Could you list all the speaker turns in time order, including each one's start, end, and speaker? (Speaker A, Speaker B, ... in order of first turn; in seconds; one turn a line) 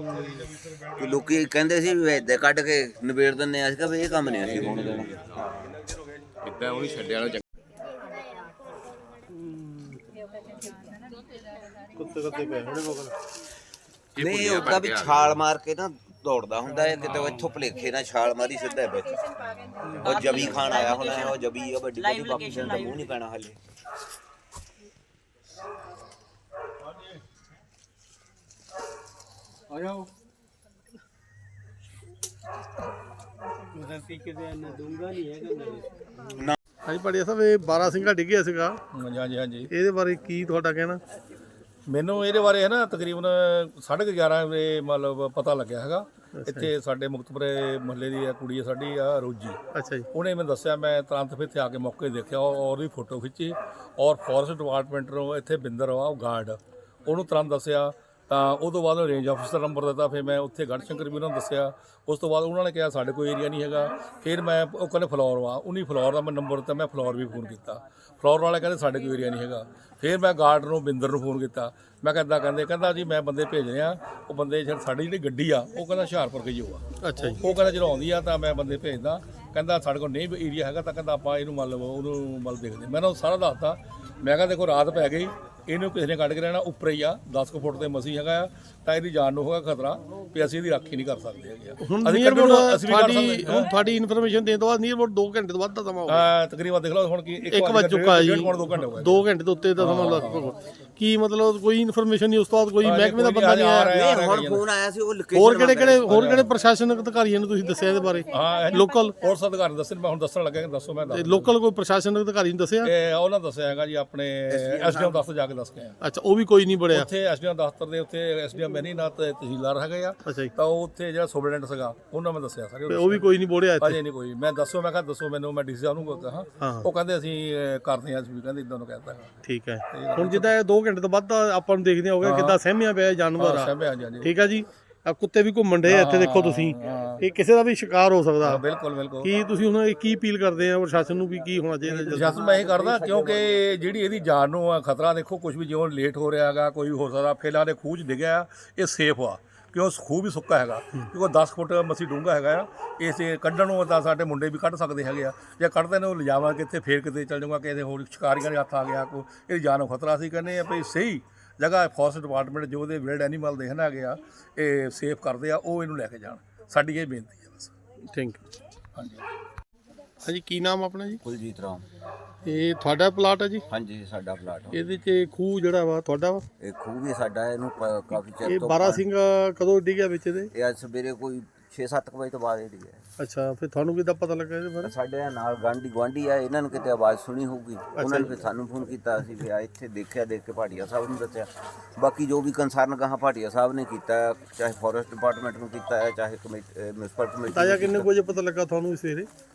Speaker A: 0.8-5.2
Speaker B: 4.6-5.1
Speaker B: 6.4-7.4
Speaker C: 12.0-13.1
Speaker A: 14.1-19.3
Speaker B: 14.2-15.3
Speaker A: 19.9-23.6
Speaker D: 20.0-21.4
Speaker D: 21.9-23.1
Speaker D: 33.7-35.9
Speaker C: 36.9-38.8
Speaker E: 38.9-39.7
Speaker C: 39.7-41.0
Speaker E: 41.9-49.6
Speaker C: 46.4-46.7
Speaker C: 49.8-50.0
Speaker E: 50.1-93.7
Speaker C: 77.0-77.4
Speaker C: 91.8-96.2
Speaker E: 96.1-99.2
Speaker C: 97.5-104.0
Speaker E: 99.8-100.5
Speaker E: 102.8-104.6
Speaker A: 103.9-106.2
Speaker C: 105.3-108.2
Speaker E: 106.1-106.4
Speaker E: 108.3-111.5
Speaker C: 108.8-109.1
Speaker C: 111.1-112.9
Speaker E: 112.8-116.0
Speaker A: 114.5-115.2
Speaker C: 116.0-117.1
Speaker E: 116.9-129.3
Speaker C: 122.9-124.0
Speaker C: 126.6-126.9
Speaker C: 129.4-133.7
Speaker E: 129.9-130.5
Speaker E: 132.2-132.6
Speaker E: 133.4-134.3
Speaker C: 134.2-138.6
Speaker E: 135.8-137.2
Speaker E: 138.4-139.3
Speaker C: 139.2-142.4
Speaker A: 141.8-143.8
Speaker E: 142.1-167.7
Speaker C: 168.1-168.4
Speaker E: 168.9-169.2
Speaker C: 170.2-171.2
Speaker A: 171.2-171.8
Speaker C: 172.4-173.6
Speaker A: 173.7-174.8
Speaker C: 174.7-176.4
Speaker A: 176.6-179.0
Speaker C: 178.4-180.5
Speaker A: 180.5-183.0
Speaker C: 183.2-184.9
Speaker A: 184.8-198.1
Speaker C: 188.0-188.3
Speaker C: 197.5-199.2